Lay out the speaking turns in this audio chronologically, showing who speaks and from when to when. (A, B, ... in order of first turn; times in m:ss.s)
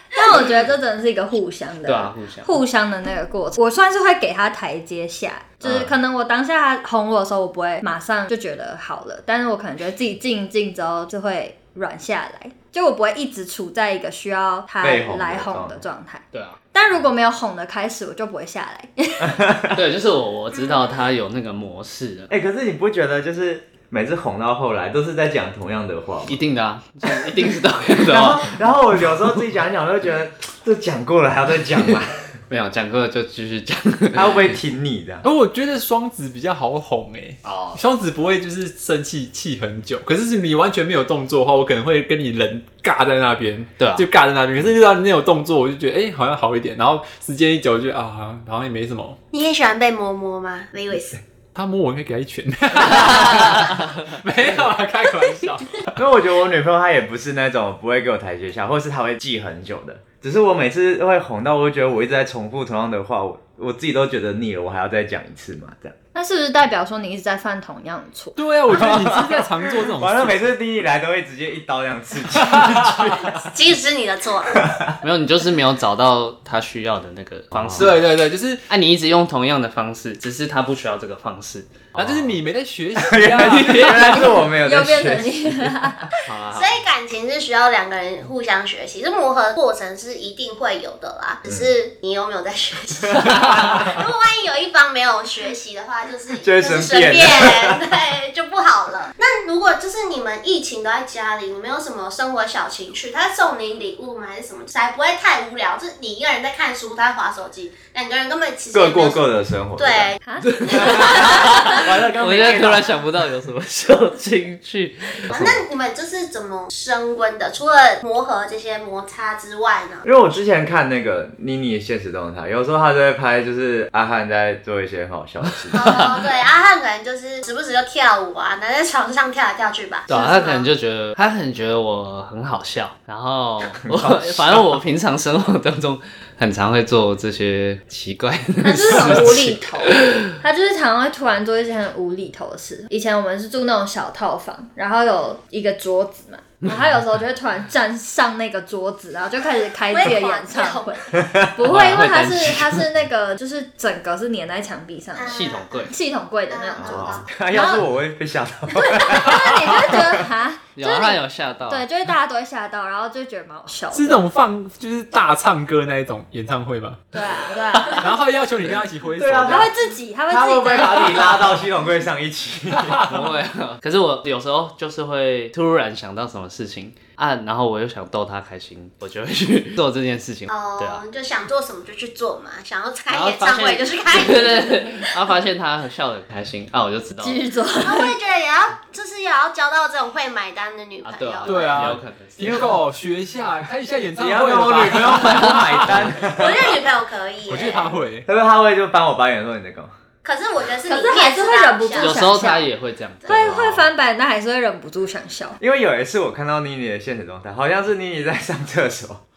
0:00.1-0:19.4 A
0:01.8-0:02.5 B
0:05.6-0:05.9 B
0:14.8-0:15.8 C
0:16.3-0:16.6 B
0:19.2-0:19.8 C
0:19.7-0:22.3 B
0:22.3-0:26.4 C
0:26.3-0:28.6 B
0:28.1-0:32.3 C
0:32.5-0:34.5 B
0:34.1-0:35.2 C
0:35.2-0:49.2 D
0:37.4-0:37.8 B
0:43.8-0:44.0 B
0:49.3-0:51.2 E
0:51.5-0:56.0 D
0:56.0-1:06.0 C
1:06.1-1:08.4 A
1:08.4-1:10.4 D
1:08.7-1:13.4 C
1:12.4-1:13.4 D
1:13.4-1:14.7 E
1:14.5-1:15.0 C
1:15.0-1:18.0 B
1:17.5-1:17.9 C
1:17.7-1:18.6 D
1:18.7-1:22.4 B
1:22.0-1:24.2 D
1:23.0-1:25.9 C
1:23.4-1:24.1 B
1:24.1-1:26.1 A
1:26.2-1:26.8 B
1:26.5-1:49.2 E
1:36.4-1:37.8 C
1:48.7-1:50.1 C
1:49.8-1:51.8 E
1:50.2-1:50.8 A
1:50.4-1:55.6 B
1:51.0-1:53.0 C
1:55.3-2:00.0 E
2:00.0-2:06.0 C
2:05.7-2:10.7 E
2:05.8-2:06.0 B
2:10.1-2:20.3 B
2:13.9-2:14.6 C
2:18.6-2:37.8 A
2:29.9-2:31.1 E
2:31.2-2:31.5 C
2:31.6-2:32.8 B
2:35.1-2:35.9 E
2:35.2-2:35.9 B
2:36.5-2:37.3 E
2:36.8-2:40.3 C
2:38.8-2:44.2 A
2:40.8-2:41.8 B
2:43.9-2:47.1 D
2:47.1-2:48.2 A
2:47.9-2:49.7 D
2:49.2-2:49.7 C
2:49.4-2:51.5 A
2:50.3-2:53.0 C
2:52.8-2:53.2 D
2:53.0-3:01.0 B
3:00.5-3:05.2 E
3:03.1-3:07.4 B
3:07.2-3:08.1 A
3:07.8-3:11.6 E
3:11.0-3:12.7 B
3:11.4-3:16.2 D
3:14.2-3:16.8 C
3:15.0-3:16.1 B
3:16.2-3:17.9 E
3:17.5-3:18.2 D
3:18.3-3:19.9 C
3:20.2-3:22.2 E
3:20.9-3:22.7 A
3:22.0-3:23.9 B
3:23.2-3:25.6 A
3:25.6-3:29.2 C